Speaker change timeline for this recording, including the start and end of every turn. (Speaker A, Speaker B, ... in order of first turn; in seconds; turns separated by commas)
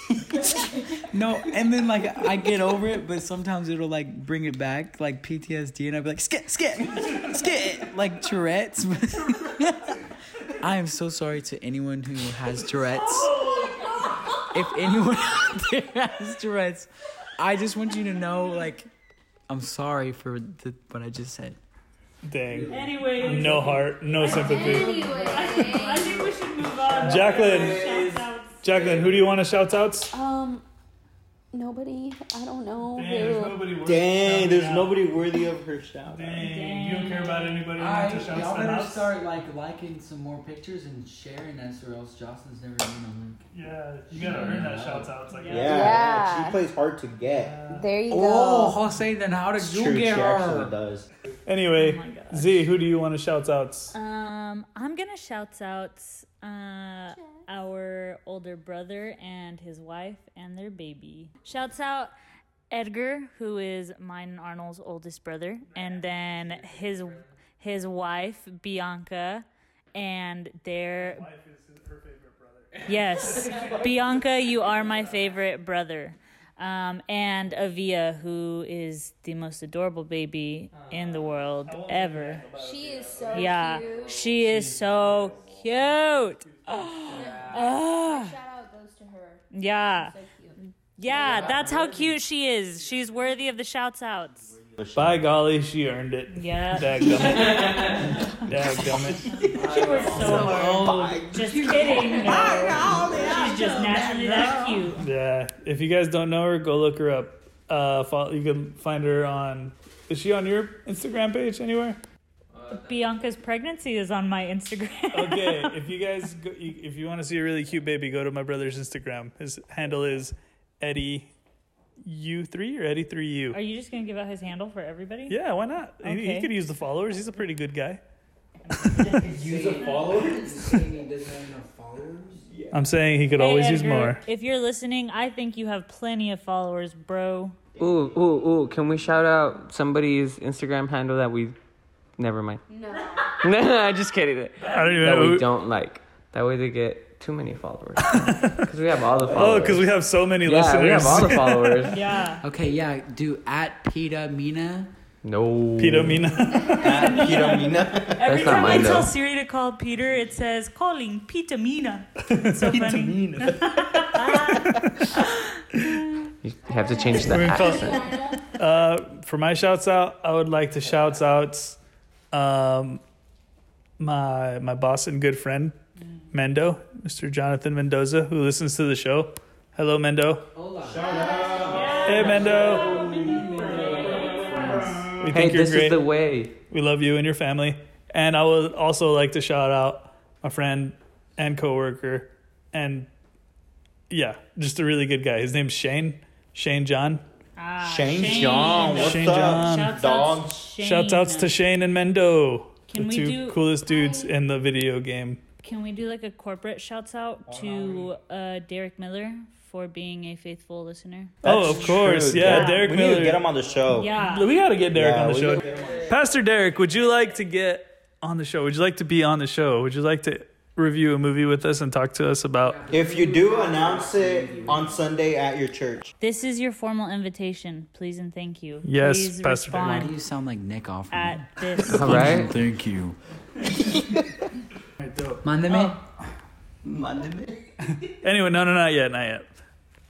Speaker A: 0.3-18.9, Speaker A: 19.5-21.6, Speaker B: 22.2-25.4, Speaker A: 22.5-23.4, Speaker C: 22.7-28.7, Speaker D: 24.2-26.4, Speaker B: 26.9-28.1, Speaker E: 27.1-28.3, Speaker B: 28.6-30.1, Speaker E: 28.8-29.1, Speaker D: 30.1-30.6, Speaker D: 31.5-33.7, Speaker B: 32.9-35.2, Speaker E: 33.8-36.6, Speaker B: 36.1-39.1, Speaker C: 36.4-37.6, Speaker A: 37.7-43.4, Speaker B: 43.5-46.0, Speaker A: 44.2-45.1, Speaker C: 44.2-44.7, Speaker C: 45.3-45.9, Speaker E: 45.5-47.9, Speaker D: 45.5-46.6, Speaker B: 47.3-47.8, Speaker D: 47.7-48.8, Speaker A: 48.1-50.8, Speaker E: 49.6-51.1, Speaker B: 51.5-54.0, Speaker C: 51.8-52.7, Speaker C: 53.9-62.1, Speaker C: 62.7-71.3, Speaker B: 65.7-67.0, Speaker B: 71.0-75.0, Speaker C: 72.8-82.5, Speaker B: 81.7-85.3, Speaker D: 82.5-84.4, Speaker C: 83.3-88.3, Speaker B: 85.9-87.4, Speaker D: 87.1-90.6, Speaker F: 87.1-87.5, Speaker C: 89.5-90.2, Speaker C: 91.0-94.6, Speaker F: 91.1-92.0, Speaker E: 94.8-95.3, Speaker B: 95.0-101.0, Speaker C: 96.3-97.5, Speaker C: 99.5-105.0, Speaker F: 99.6-100.0, Speaker E: 99.7-103.3, Speaker A: 100.4-100.7, Speaker A: 101.3-104.7, Speaker D: 103.2-104.6, Speaker B: 105.0-112.0, Speaker F: 112.5-112.9, Speaker C: 112.7-115.8, Speaker B: 115.1-121.3, Speaker B: 122.0-123.6, Speaker C: 123.5-125.4, Speaker B: 125.3-128.0, Speaker C: 126.0-126.5, Speaker C: 128.7-130.0, Speaker B: 128.7-129.3, Speaker A: 129.1-132.5, Speaker B: 132.7-134.2, Speaker C: 133.3-137.6, Speaker F: 137.8-141.6, Speaker F: 142.2-142.7, Speaker D: 142.7-143.4, Speaker F: 143.2-149.9, Speaker B: 144.6-145.5, Speaker B: 148.0-148.6, Speaker B: 149.3-152.0, Speaker F: 150.4-152.0, Speaker C: 151.9-152.4, Speaker A: 152.4-154.9, Speaker F: 155.2-156.3, Speaker B: 155.8-157.1, Speaker C: 156.5-166.3, Speaker E: 156.7-158.7, Speaker F: 158.2-159.1, Speaker B: 162.3-165.2, Speaker E: 162.7-163.4, Speaker B: 165.7-166.0, Speaker F: 166.4-168.1, Speaker D: 166.7-168.4, Speaker B: 167.2-171.8, Speaker B: 172.3-173.0, Speaker B: 174.0-175.8, Speaker B: 176.3-180.5, Speaker A: 180.5-184.8, Speaker E: 180.9-185.4, Speaker D: 181.2-182.1, Speaker C: 181.6-185.0, Speaker B: 182.0-183.1, Speaker B: 185.0-186.1, Speaker F: 185.3-186.6, Speaker B: 186.7-193.1, Speaker B: 194.1-197.2, Speaker C: 197.6-201.6, Speaker E: 197.8-200.7, Speaker B: 198.4-200.0, Speaker B: 200.8-205.4, Speaker C: 202.9-203.7, Speaker D: 203.9-204.3, Speaker C: 205.6-211.4, Speaker E: 207.5-208.1, Speaker E: 211.4-214.2, Speaker B: 211.4-213.4, Speaker C: 212.4-213.0, Speaker C: 213.9-214.6, Speaker B: 214.2-222.8, Speaker E: 214.9-215.9, Speaker A: 222.6-225.2, Speaker E: 222.9-226.1, Speaker C: 226.2-230.1, Speaker B: 228.8-229.9, Speaker A: 229.7-233.2, Speaker C: 231.1-232.4, Speaker F: 231.9-232.5, Speaker E: 233.9-234.2, Speaker B: 235.0-235.4, Speaker A: 235.4-236.1, Speaker E: 236.8-238.0, Speaker B: 238.1-239.5